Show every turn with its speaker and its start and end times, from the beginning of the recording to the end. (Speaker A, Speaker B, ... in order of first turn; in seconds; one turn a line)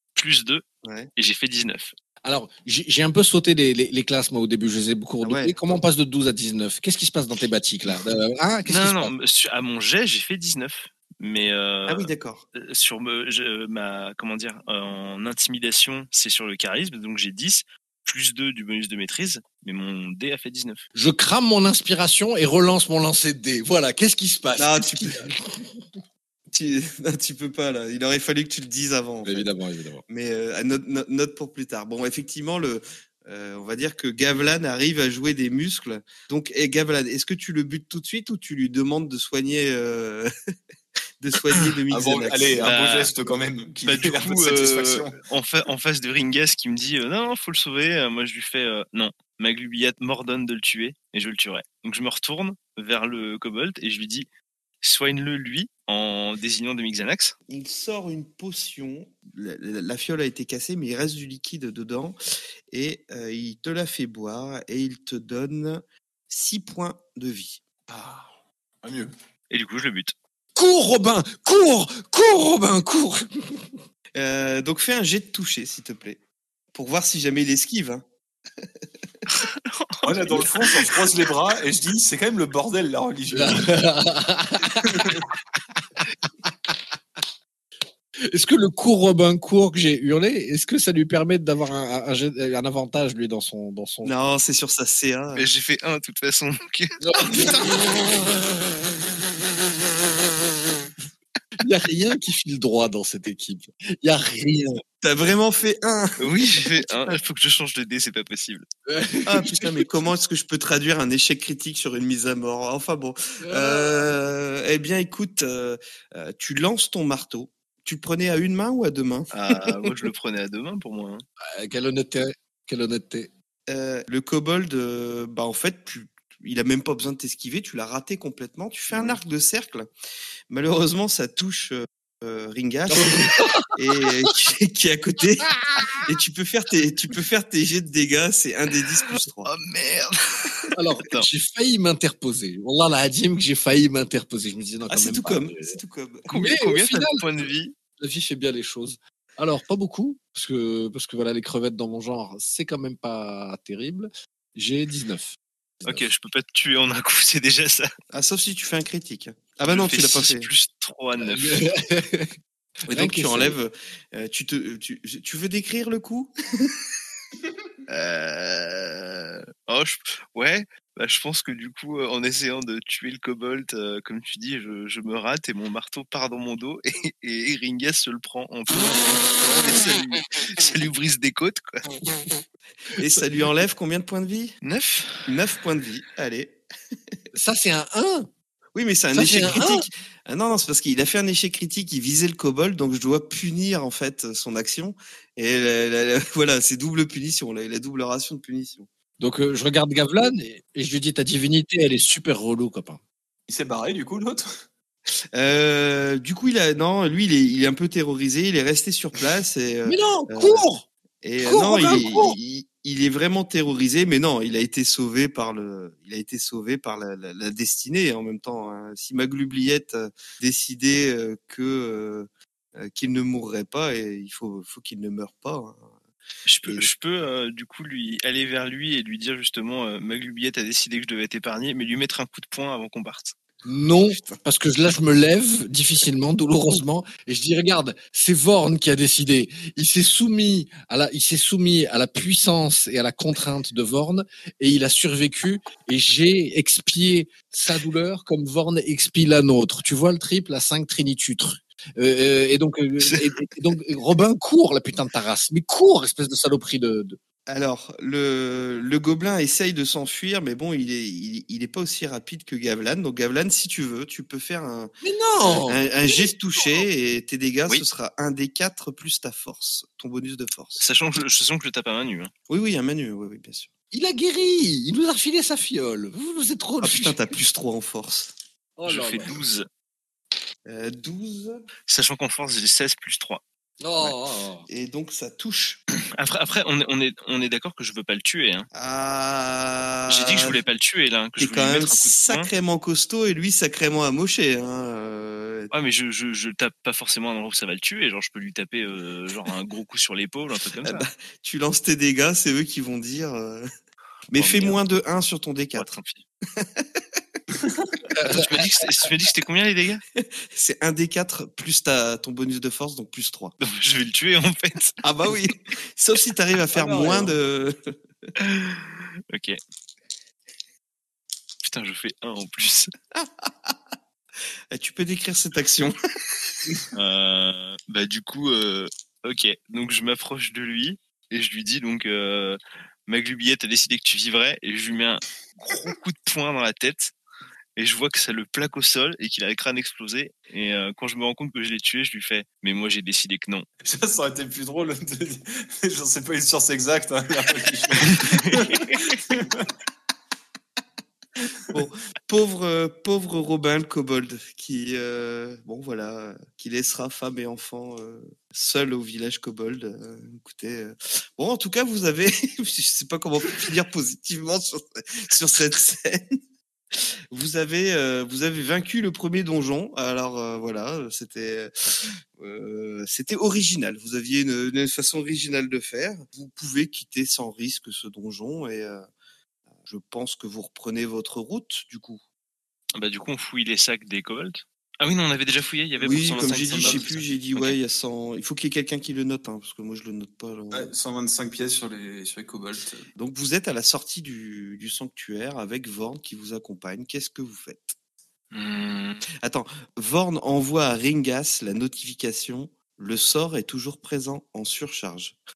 Speaker A: 0.1-0.6
Speaker B: 0.8-1.1
Speaker A: 1.1-1.9
Speaker C: 2.2-9.1
Speaker B: 5.2-5.8
Speaker A: 8.7-20.8
Speaker B: 11.9-12.4
Speaker C: 20.9-25.7
Speaker B: 24.5-25.3
Speaker B: 26.5-29.5
Speaker C: 29.2-30.0
Speaker B: 30.1-40.3
Speaker B: 41.2-42.7
Speaker D: 41.9-45.2
Speaker A: 42.6-43.1
Speaker A: 43.9-54.3
Speaker A: 54.8-57.4
Speaker B: 57.5-62.2
Speaker B: 62.7-67.6
Speaker D: 67.9-69.1
Speaker A: 69.5-70.1
Speaker C: 70.5-73.7
Speaker B: 74.1-76.2
Speaker B: 76.7-78.0
Speaker A: 79.3-81.0
Speaker D: 80.0-83.8
Speaker C: 83.3-85.2
Speaker D: 84.8-85.2
Speaker C: 86.0-86.7
Speaker C: 88.2-94.3
Speaker B: 94.0-95.5
Speaker A: 95.3-97.6
Speaker C: 97.0-98.6
Speaker C: 101.6-104.8
Speaker B: 105.0-107.2
Speaker A: 106.2-108.7
Speaker C: 108.9-109.8
Speaker B: 109.2-119.3
Speaker C: 113.4-114.1
Speaker A: 119.3-121.2
Speaker C: 121.5-123.3
Speaker B: 123.7-129.9
Speaker B: 130.5-139.5
Speaker C: 132.9-133.7
Speaker C: 135.6-136.0
Speaker A: 139.4-141.3
Speaker C: 140.7-145.8
Speaker B: 144.9-146.3
Speaker A: 146.3-147.7
Speaker C: 146.3-147.5
Speaker C: 148.0-156.1
Speaker A: 155.8-157.9
Speaker B: 158.1-160.5
Speaker A: 159.7-161.6
Speaker C: 161.2-162.3
Speaker C: 162.8-163.6
Speaker B: 162.9-166.8
Speaker A: 167.9-181.9
Speaker B: 182.9-184.5
Speaker A: 184.6-185.3
Speaker B: 185.2-186.6
Speaker C: 187.3-188.3
Speaker B: 188.7-198.9
Speaker C: 189.1-189.8
Speaker C: 199.2-203.0
Speaker D: 203.5-204.5
Speaker B: 205.3-210.7
Speaker C: 209.9-210.9
Speaker B: 211.2-225.9
Speaker C: 211.4-212.4
Speaker A: 226.4-233.3
Speaker B: 226.6-226.9
Speaker C: 233.6-257.2
Speaker B: 257.5-270.8
Speaker C: 265.0-266.3
Speaker A: 270.8-272.3
Speaker B: 272.5-273.7
Speaker C: 273.9-277.3
Speaker B: 276.8-278.3
Speaker C: 278.8-279.4
Speaker A: 278.9-279.7
Speaker B: 280.6-281.6
Speaker A: 281.9-283.4
Speaker C: 283.8-284.7
Speaker B: 284.7-285.8
Speaker A: 286.0-288.7
Speaker B: 288.7-290.6
Speaker A: 290.1-292.5
Speaker B: 291.4-295.7
Speaker A: 295.7-301.1
Speaker B: 300.8-303.7
Speaker B: 304.3-305.9
Speaker A: 304.4-304.8
Speaker A: 305.8-306.2
Speaker B: 306.6-307.0
Speaker C: 308.1-308.6
Speaker A: 308.2-310.0
Speaker B: 310.2-313.6
Speaker A: 313.6-315.0
Speaker B: 315.0-317.7
Speaker C: 316.7-317.4
Speaker A: 319.3-319.6
Speaker A: 321.6-322.9
Speaker B: 323.1-323.8
Speaker B: 324.7-326.5
Speaker A: 326.9-337.1
Speaker A: 337.8-343.7
Speaker D: 343.8-349.7
Speaker A: 348.1-349.1
Speaker B: 351.7-366.3
Speaker B: 366.9-379.1
Speaker B: 379.9-382.2
Speaker A: 382.9-387.8
Speaker B: 386.0-390.9
Speaker D: 386.0-387.1
Speaker D: 390.7-393.1
Speaker B: 393.2-397.9
Speaker A: 398.5-399.2
Speaker B: 399.4-405.4